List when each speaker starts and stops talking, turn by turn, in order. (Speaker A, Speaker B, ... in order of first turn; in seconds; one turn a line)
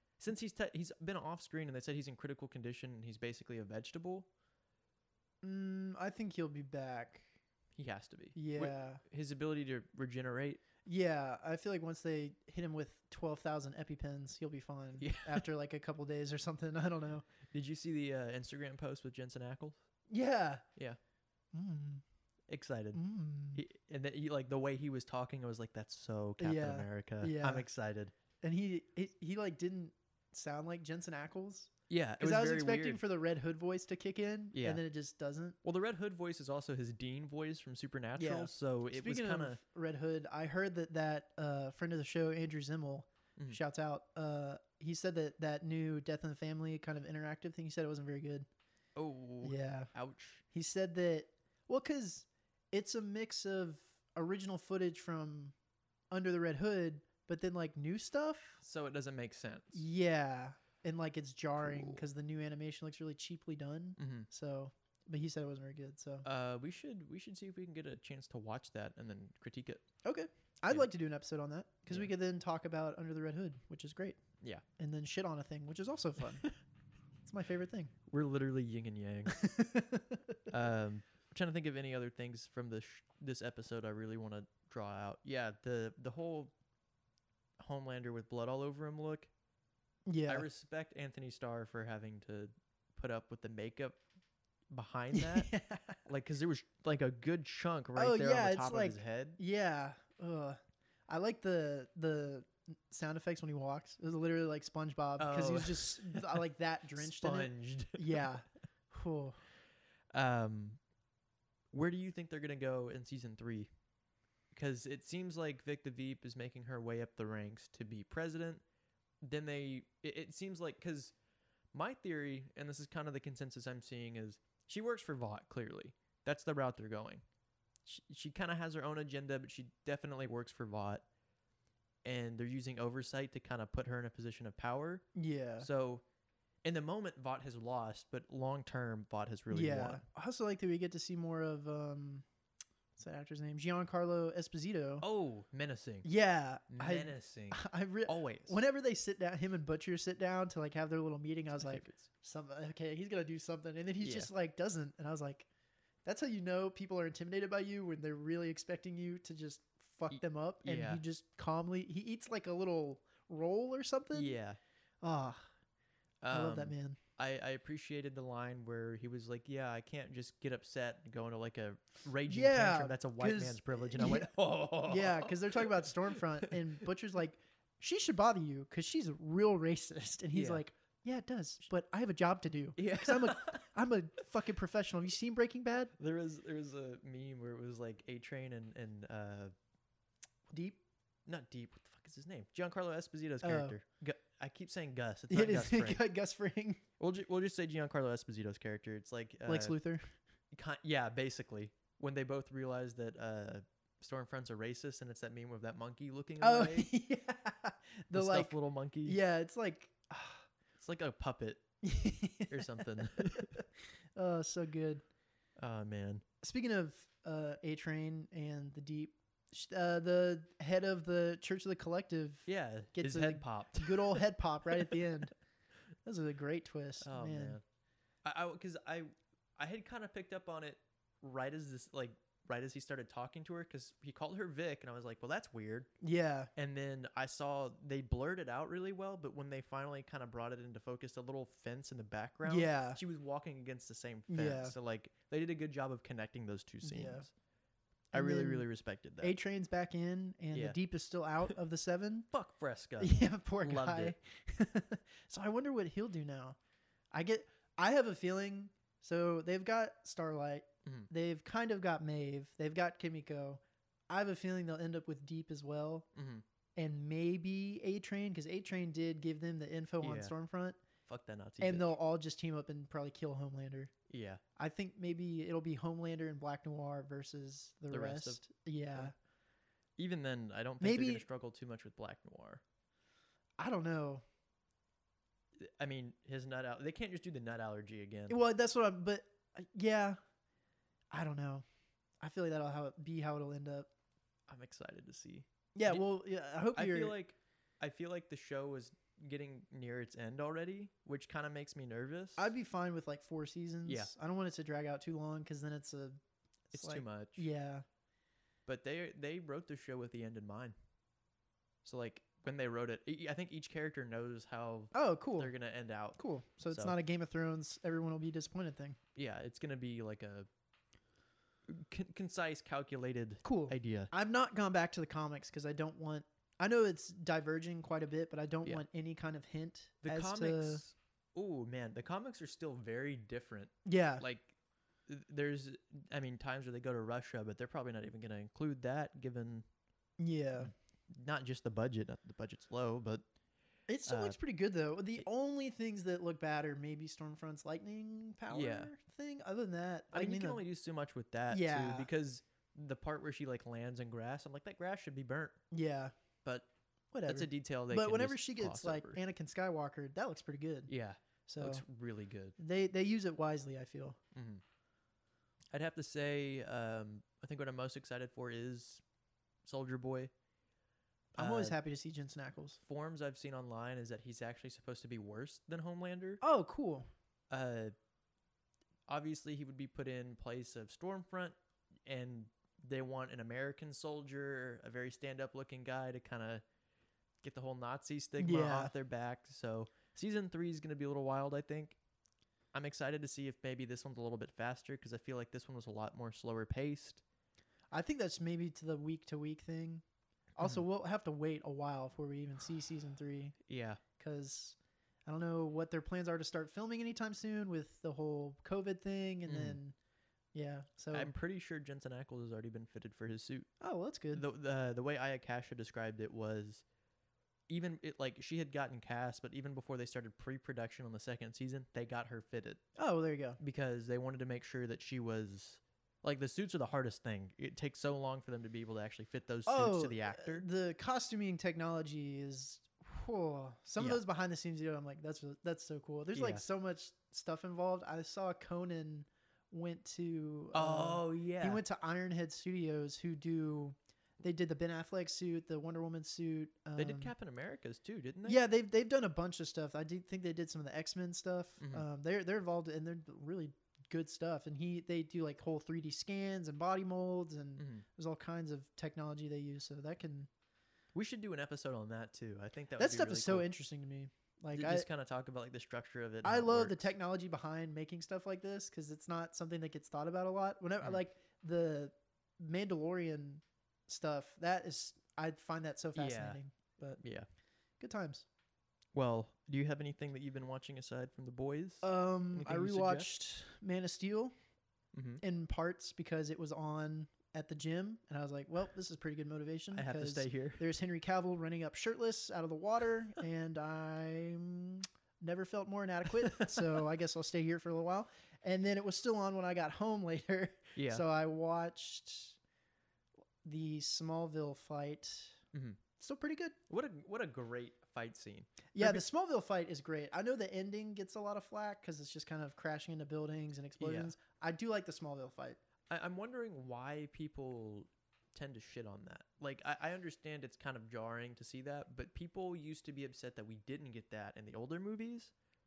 Speaker A: 0.2-4.3
Speaker B: 5.4-7.3
Speaker A: 7.8-10.6
Speaker B: 8.3-9.0
Speaker B: 10.8-17.3
Speaker A: 15.0-15.5
Speaker A: 17.5-19.8
Speaker B: 20.1-20.6
Speaker B: 21.5-22.0
Speaker A: 22.5-23.0
Speaker B: 22.9-23.6
Speaker A: 23.6-28.1
Speaker B: 26.4-27.7
Speaker B: 28.4-35.6
Speaker A: 31.9-33.0
Speaker A: 34.5-34.8
Speaker A: 35.6-39.6
Speaker B: 38.2-48.5
Speaker A: 49.0-50.4
Speaker B: 49.4-49.9
Speaker B: 50.5-55.5
Speaker B: 56.1-58.6
Speaker A: 58.6-59.8
Speaker B: 59.7-66.3
Speaker A: 61.6-62.0
Speaker A: 64.0-64.3
Speaker A: 66.2-69.8
Speaker B: 70.0-74.2
Speaker B: 74.8-76.5
Speaker B: 77.2-77.9
Speaker A: 78.1-79.4
Speaker B: 79.3-80.4
Speaker A: 80.5-86.5
Speaker A: 87.6-89.3
Speaker B: 90.1-90.5
Speaker A: 90.3-94.0
Speaker A: 94.7-95.5
Speaker B: 95.1-96.0
Speaker A: 96.1-99.4
Speaker B: 98.0-109.4
Speaker A: 105.2-106.4
Speaker A: 107.0-108.3
Speaker A: 110.1-110.8
Speaker A: 111.7-113.7
Speaker A: 114.5-118.6
Speaker A: 119.2-121.1
Speaker A: 121.7-127.2
Speaker A: 127.8-131.1
Speaker A: 132.0-135.1
Speaker B: 135.2-135.7
Speaker A: 135.6-136.0
Speaker A: 136.6-140.0
Speaker B: 139.5-142.2
Speaker B: 143.0-145.1
Speaker A: 145.0-146.1
Speaker B: 146.0-155.5
Speaker A: 146.7-148.6
Speaker A: 151.6-152.1
Speaker A: 154.0-154.3
Speaker B: 156.1-164.3
Speaker A: 160.1-161.0
Speaker A: 164.1-164.6
Speaker B: 165.0-165.5
Speaker A: 166.2-176.8
Speaker B: 166.3-167.0
Speaker B: 172.3-174.3
Speaker B: 174.8-185.9
Speaker A: 180.3-180.6
Speaker A: 182.8-183.7
Speaker A: 186.0-189.5
Speaker B: 190.5-190.8
Speaker A: 191.3-196.0
Speaker B: 193.4-193.8
Speaker B: 195.3-196.8
Speaker A: 197.0-199.8
Speaker B: 199.5-200.1
Speaker A: 200.5-206.9
Speaker B: 206.4-210.5
Speaker A: 208.1-209.2
Speaker A: 210.8-211.7
Speaker B: 211.8-215.0
Speaker A: 212.5-213.6
Speaker A: 215.6-216.2
Speaker B: 216.4-225.3
Speaker A: 222.5-225.0
Speaker B: 226.1-227.6
Speaker A: 227.0-227.6
Speaker A: 228.2-235.9
Speaker B: 236.0-236.5
Speaker A: 236.6-247.3
Speaker B: 242.4-243.0
Speaker B: 244.3-244.8
Speaker B: 246.8-247.3
Speaker B: 248.1-248.7
Speaker A: 248.1-249.4
Speaker B: 249.2-252.3
Speaker A: 252.3-254.2
Speaker B: 253.0-256.6
Speaker B: 257.1-266.1
Speaker A: 266.1-266.4
Speaker B: 266.8-270.8
Speaker A: 270.0-270.3
Speaker A: 271.1-271.9
Speaker B: 271.6-273.9
Speaker A: 274.1-274.4
Speaker B: 274.6-279.1
Speaker A: 277.9-278.4
Speaker A: 280.0-282.6
Speaker B: 280.8-281.2
Speaker B: 283.6-284.2
Speaker A: 285.6-288.4
Speaker B: 288.3-290.2
Speaker B: 291.1-291.6
Speaker B: 292.2-293.9
Speaker A: 294.5-296.1
Speaker B: 295.8-297.2
Speaker A: 296.7-302.5
Speaker B: 302.4-306.2
Speaker A: 303.9-304.1
Speaker B: 306.7-307.9
Speaker A: 306.7-307.5
Speaker A: 308.7-310.8
Speaker A: 311.8-316.9
Speaker B: 314.9-315.5
Speaker B: 316.2-319.0
Speaker A: 319.1-320.5
Speaker A: 321.7-324.1
Speaker B: 323.4-330.8
Speaker A: 330.0-334.5
Speaker B: 333.9-334.2
Speaker A: 335.1-339.7
Speaker B: 340.2-340.7
Speaker A: 340.6-343.2
Speaker B: 343.9-350.6
Speaker A: 344.1-344.4
Speaker A: 348.5-348.9
Speaker A: 350.1-355.6
Speaker B: 351.5-352.1
Speaker B: 355.7-356.1
Speaker B: 357.1-360.9
Speaker A: 357.3-359.2
Speaker A: 360.9-362.6
Speaker B: 361.5-361.8
Speaker B: 362.6-364.2
Speaker A: 364.3-364.6
Speaker A: 365.7-369.0
Speaker A: 369.6-370.3
Speaker B: 371.4-372.8
Speaker A: 371.4-371.8
Speaker A: 372.8-376.4
Speaker B: 376.4-377.1
Speaker A: 377.5-377.9
Speaker A: 379.1-386.6
Speaker A: 387.4-392.0
Speaker B: 388.4-388.9
Speaker A: 392.7-397.2
Speaker B: 397.9-400.0
Speaker B: 400.6-403.6
Speaker A: 403.7-404.0
Speaker B: 404.2-404.8
Speaker B: 405.3-410.0
Speaker A: 409.5-409.8
Speaker B: 410.5-411.3
Speaker A: 411.1-413.7
Speaker B: 413.8-414.4
Speaker A: 414.3-416.8
Speaker A: 417.7-422.8
Speaker B: 423.0-423.6
Speaker A: 423.6-430.7
Speaker B: 429.7-447.3
Speaker A: 436.3-436.6
Speaker A: 440.7-441.8
Speaker A: 447.0-448.6
Speaker B: 448.4-460.5
Speaker A: 451.8-452.1
Speaker A: 457.8-458.1
Speaker A: 461.1-463.7
Speaker B: 463.0-465.1
Speaker A: 464.7-467.1
Speaker B: 466.4-477.2
Speaker A: 476.1-476.6
Speaker A: 477.2-477.5
Speaker B: 478.0-478.5
Speaker A: 479.1-483.3
Speaker B: 482.0-484.5
Speaker A: 485.1-485.4
Speaker B: 485.4-502.6
Speaker A: 489.9-490.8
Speaker A: 496.4-497.1
Speaker A: 500.9-501.2
Speaker B: 503.6-505.6
Speaker A: 505.7-506.0
Speaker B: 506.2-506.8
Speaker A: 506.9-509.2
Speaker B: 508.9-515.8
Speaker A: 514.0-514.3
Speaker A: 516.1-525.5